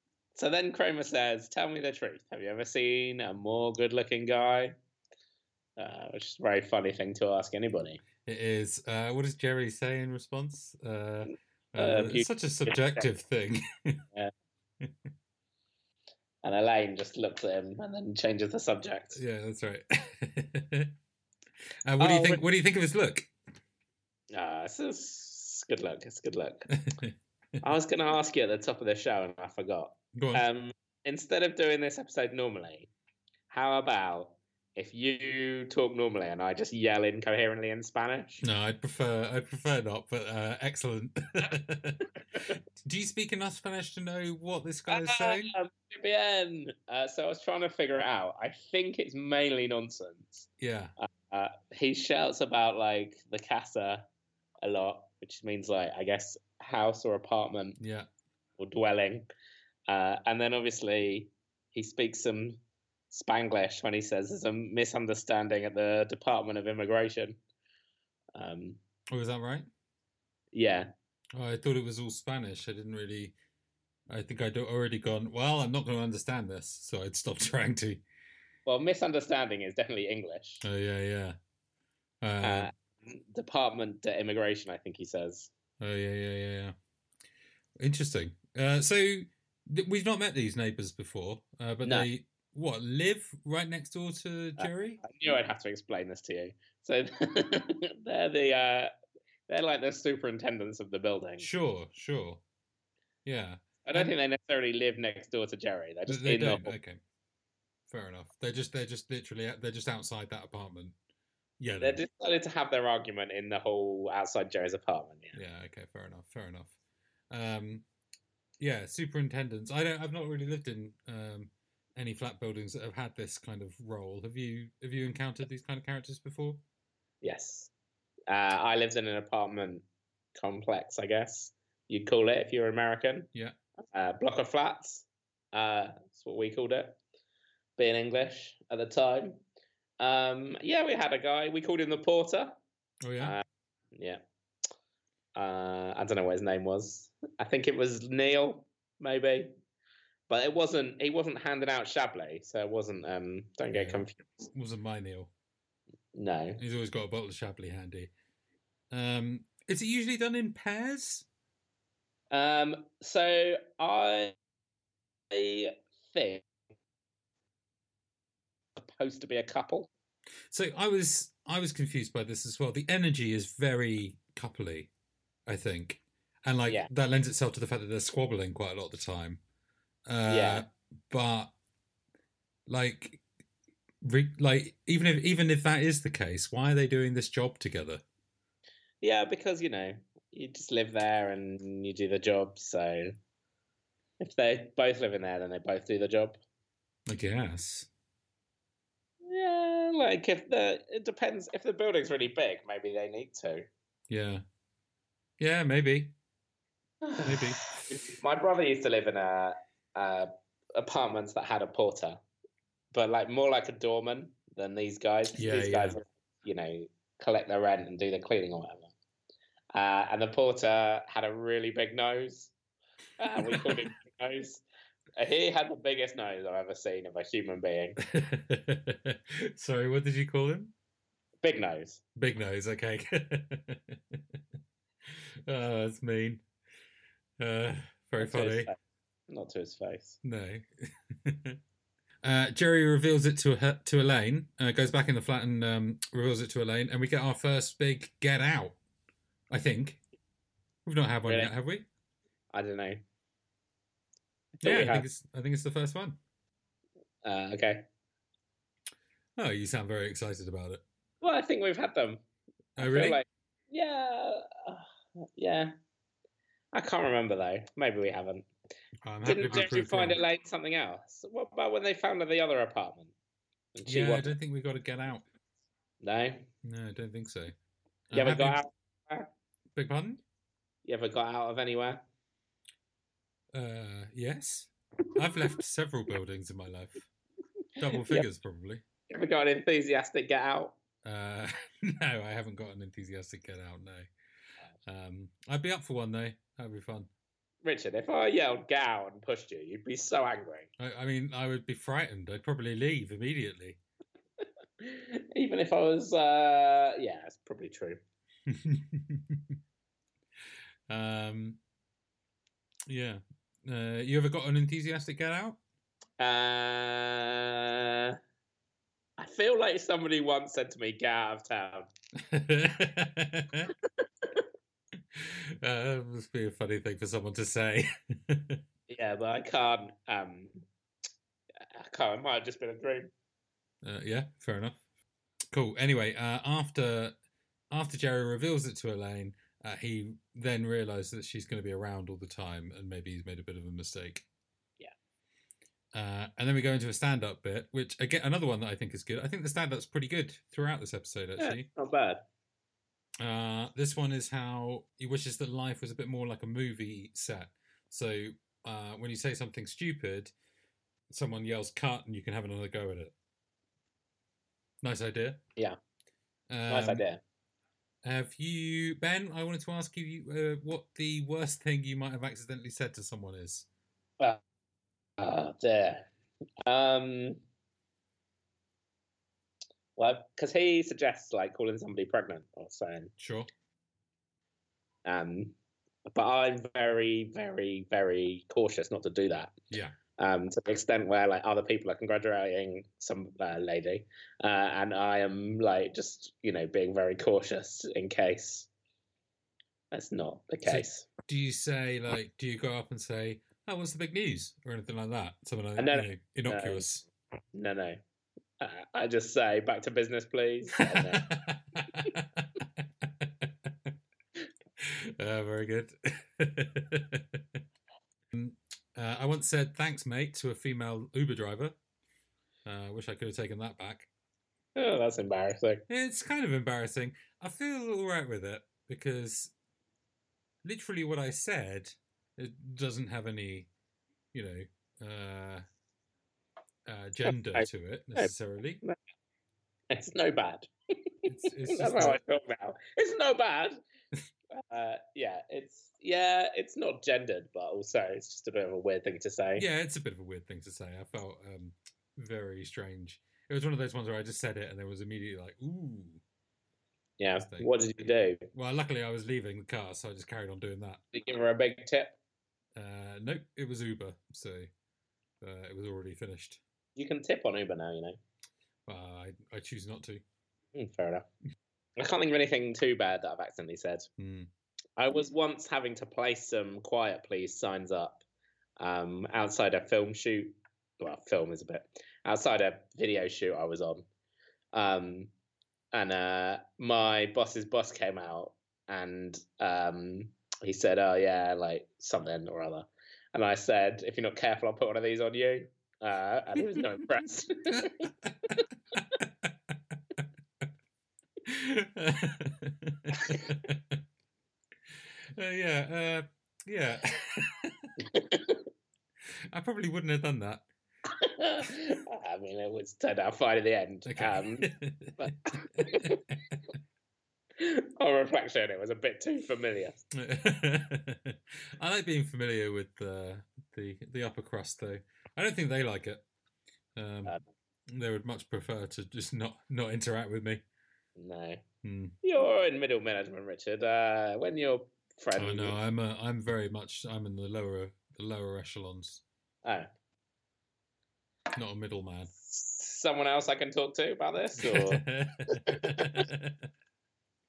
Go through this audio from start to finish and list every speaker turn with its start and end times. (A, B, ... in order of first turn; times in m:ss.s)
0:00.4-0:04.8 A
0:05.8-0:08.0 A
0:08.2-0:14.0 B
0:11.8-0:13.1 A
0:16.4-0:19.2 A
0:19.1-0:20.9 B
0:21.8-0:23.3 B
0:22.0-0:22.4 A
0:24.3-0:26.7 A
0:26.7-0:27.1 B
0:27.6-0:32.9 A
0:30.2-0:30.4 B
0:33.5-0:38.4 A
0:38.4-0:45.5 B
0:44.9-0:50.5 A
0:50.6-0:50.9 B
0:51.0-0:54.1 A
0:54.6-0:57.8 A
0:57.8-0:58.1 B
0:58.6-0:59.3 A
0:59.9-1:02.6 A
1:03.1-1:07.4 A
1:08.4-1:08.8 A
1:09.1-1:09.7 B
1:10.5-1:10.9 A
1:11.4-1:13.4 B
1:14.1-1:18.0 B
1:18.7-1:20.6 A
1:20.6-1:21.4 B
1:22.2-1:22.7 B
1:22.4-1:25.5 A
1:25.8-1:26.8 B
1:27.8-1:35.0 B
1:34.6-1:38.9 A
1:39.5-1:41.5 A
1:41.4-1:42.4 B
1:43.2-1:44.1 B
1:43.8-1:46.8 A
1:46.1-1:47.0 B
1:47.9-1:51.0 B
1:51.6-1:52.0 B
1:51.8-1:55.4 A
1:55.3-1:56.7 B
1:57.3-1:57.8 B
1:58.6-2:06.6 B
2:07.2-2:07.7 A
2:08.3-2:09.8 A
2:10.4-2:13.3 A
2:13.9-2:17.0 A
2:17.8-2:19.4 A
2:20.0-2:22.6 A
2:23.0-2:23.4 B
2:23.2-2:24.2 A
2:25.4-2:29.5 A
2:30.3-2:34.5 A
2:33.7-2:35.3 B
2:36.1-2:36.6 A
2:36.6-2:38.1 B
2:38.9-2:41.3 B
2:42.3-2:44.4 A
2:45.3-2:46.4 A
2:48.8-2:49.9 A
2:50.5-2:54.9 B
2:55.5-2:59.4 B
3:00.1-3:01.5 B
3:00.3-3:00.6 A
3:02.7-3:03.2 B
3:04.0-3:08.0 B
3:09.0-3:13.2 A
3:14.2-3:16.4 A
3:17.1-3:17.9 B
3:19.2-3:23.7 A
3:24.1-3:24.4 B
3:25.4-3:26.1 B
3:27.0-3:32.2 A
3:27.2-3:28.1 B
3:32.9-3:38.9 A
3:35.4-3:36.0 B
3:39.7-3:42.5 A
3:43.2-3:44.6 A
3:43.4-3:43.8 B
3:45.2-3:48.0 A
3:48.0-3:50.7 B
3:51.4-3:52.0 A
3:52.2-3:54.2 B
3:55.1-3:56.4 B
3:57.4-3:58.7 B
3:58.2-3:58.8 A
3:59.3-4:00.2 A
4:00.2-4:01.6 B
4:02.2-4:08.8 B
4:09.5-4:10.0 B
4:10.9-4:11.9 B
4:12.5-4:13.0 A
4:14.6-4:15.0 A
4:14.6-4:16.2 B
4:17.2-4:17.8 A
4:19.4-4:20.8 B
4:21.2-4:22.2 A
4:22.8-4:23.2 B
4:22.8-4:25.7 A
4:26.7-4:28.5 A
4:29.0-4:30.2 B
4:29.2-4:33.1 A
4:33.8-4:34.3 A
4:33.9-4:35.3 B
4:36.0-4:36.5 A
4:36.6-4:37.5 B
4:38.1-4:38.6 B
4:38.1-4:39.3 A
4:39.8-4:40.2 B
4:40.8-4:42.0 A
4:43.5-4:47.1 B
4:47.8-4:48.8 B
4:48.0-4:48.3 A
4:49.1-4:50.8 A
4:51.0-4:54.1 B
4:54.9-4:57.1 B
4:57.6-5:00.7 A
5:00.8-5:03.8 B
5:04.4-5:08.0 A
5:08.5-5:09.6 B
5:10.9-5:11.6 B
5:12.9-5:15.6 B
5:16.2-5:18.2 A
5:19.2-5:21.9 A
5:22.2-5:23.7 B
5:25.1-5:28.6 B
5:28.9-5:30.6 A
5:31.6-5:33.1 A
5:33.8-5:34.8 B
5:35.5-5:37.2 B
5:37.7-5:44.3 B
5:45.9-5:51.7 B
5:51.4-5:52.2 A
5:53.2-6:00.3 B
6:01.1-6:03.1 B
6:04.8-6:05.4 B
6:06.5-6:07.0 B
6:06.7-6:07.2 A
6:08.0-6:13.7 B
6:15.2-6:16.1 A
6:16.7-6:17.4 A
6:20.0-6:23.1 A
6:23.2-6:23.5 B
6:25.0-6:25.5 A
6:26.1-6:29.5 A
6:29.7-6:30.0 B
6:30.2-6:38.7 A
6:39.9-6:41.1 A
6:40.7-6:47.0 B
6:45.8-6:46.9 A
6:47.5-6:48.0 A
6:48.6-6:51.3 A
6:50.8-6:53.9 B
6:54.8-6:57.6 B
6:58.3-7:01.8 B
7:02.6-7:04.1 B
7:04.8-7:05.8 A
7:05.9-7:09.5 B
7:10.6-7:13.7 B
7:14.3-7:15.6 B
7:16.9-7:18.8 B
7:17.6-7:18.3 A
7:19.9-7:21.0 A
7:21.3-7:22.2 B
7:21.7-7:23.8 A
7:24.5-7:29.7 A
7:29.6-7:36.2 B
7:37.2-7:38.4 A
7:38.5-7:41.0 B
7:41.1-7:42.2 A
7:42.8-7:44.7 B
7:45.4-7:46.6 B
7:47.0-7:48.2 A
7:48.9-7:50.2 B
7:50.7-7:51.3 A
7:52.0-7:54.1 A
7:54.2-7:54.5 B
7:55.0-7:58.2 A
7:58.8-8:04.1 A
8:04.7-8:05.3 A
8:05.9-8:18.1 A
8:17.8-8:19.5 B
8:21.4-8:24.0 B
8:25.4-8:27.9 B
8:28.0-8:28.6 A
8:29.5-8:30.6 B
8:31.1-8:36.2 A
8:34.1-8:36.6 B
8:37.6-8:40.0 A
8:40.1-8:46.2 B
8:47.0-8:47.4 B
8:47.9-8:50.6 B
8:51.2-8:51.6 A
8:51.8-8:52.2 B
8:52.2-8:55.8 A
8:55.4-8:59.2 B
9:01.6-9:02.3 B
9:02.4-9:06.2 A
9:04.6-9:06.6 B